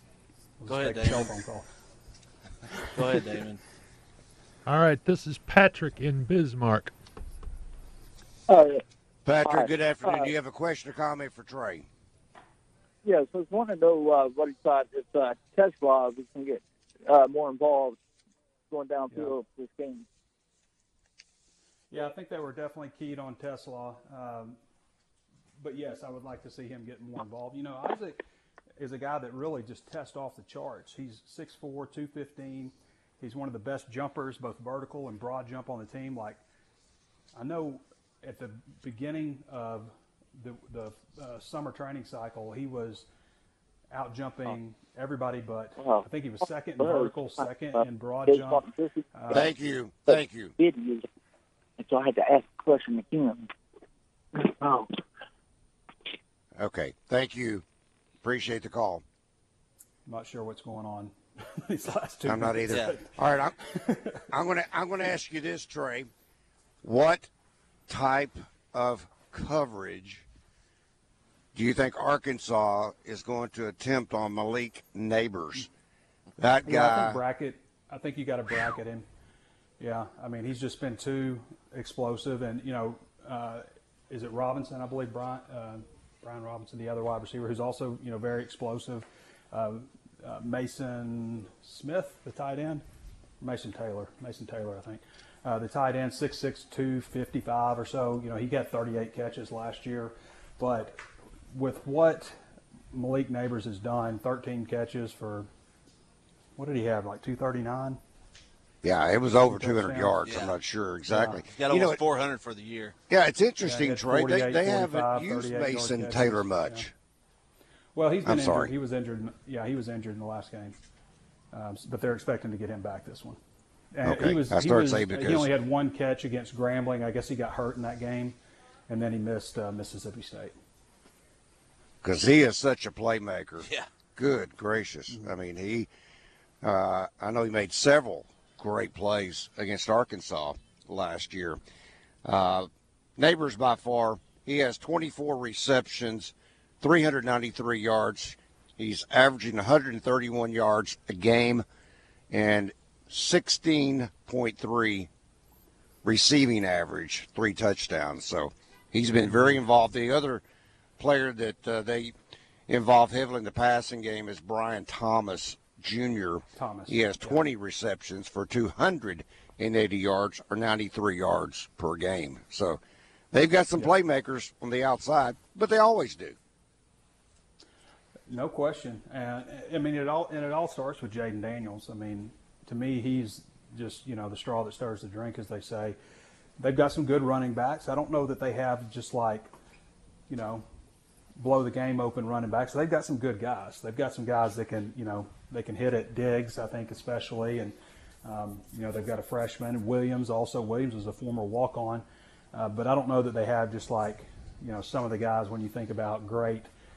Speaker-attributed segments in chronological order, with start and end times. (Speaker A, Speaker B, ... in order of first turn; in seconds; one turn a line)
Speaker A: 0.6-1.6
Speaker B: 0.7-1.3
Speaker B: 2.9-3.6
Speaker C: 4.7-6.9
Speaker D: 8.5-8.8
Speaker E: 9.2-11.8
Speaker D: 9.4-10.3
Speaker D: 13.0-18.0
Speaker D: 18.7-20.1
Speaker A: 21.9-24.6
Speaker A: 25.6-28.2
Speaker A: 28.8-36.4
Speaker A: 37.3-43.1
Speaker A: 43.9-49.5
Speaker D: 45.8-46.0
Speaker D: 46.8-47.1
Speaker D: 48.3-49.0
Speaker E: 49.3-50.5
Speaker D: 50.6-51.0
Speaker D: 51.8-53.5
Speaker D: 54.4-54.9
Speaker E: 56.6-57.6
Speaker E: 58.2-59.0
Speaker A: 60.0-64.3
Speaker E: 62.2-63.7
Speaker B: 62.7-62.9
Speaker E: 64.3-66.1
Speaker E: 66.8-67.3
Speaker E: 67.9-70.2
Speaker E: 71.5-75.7
Speaker E: 76.4-77.2
Speaker A: 76.6-79.0
Speaker A: 79.8-92.8
Speaker A: 93.4-101.0
Speaker A: 101.5-102.3
Speaker A: 102.9-105.5
Speaker A: 106.6-108.0
Speaker E: 108.8-112.0
Speaker A: 109.4-110.2
Speaker B: 110.2-110.5
Speaker A: 111.1-111.4
Speaker B: 111.4-112.9
Speaker E: 113.1-116.9
Speaker A: 113.6-116.9
Speaker A: 117.9-120.8
Speaker E: 118.2-118.7
Speaker A: 121.5-123.4
Speaker A: 123.9-128.4
Speaker E: 124.0-125.5
Speaker A: 128.9-130.5
Speaker E: 132.0-135.9
Speaker E: 136.6-141.6
Speaker E: 142.2-151.6
Speaker E: 152.3-155.1
Speaker E: 156.0-160.4
Speaker A: 159.3-159.6
Speaker E: 161.0-162.1
Speaker E: 162.7-172.8
Speaker A: 166.6-167.5
Speaker E: 173.3-176.3
Speaker A: 178.3-186.0
Speaker A: 186.6-189.5
Speaker A: 190.3-190.6
Speaker A: 191.4-206.7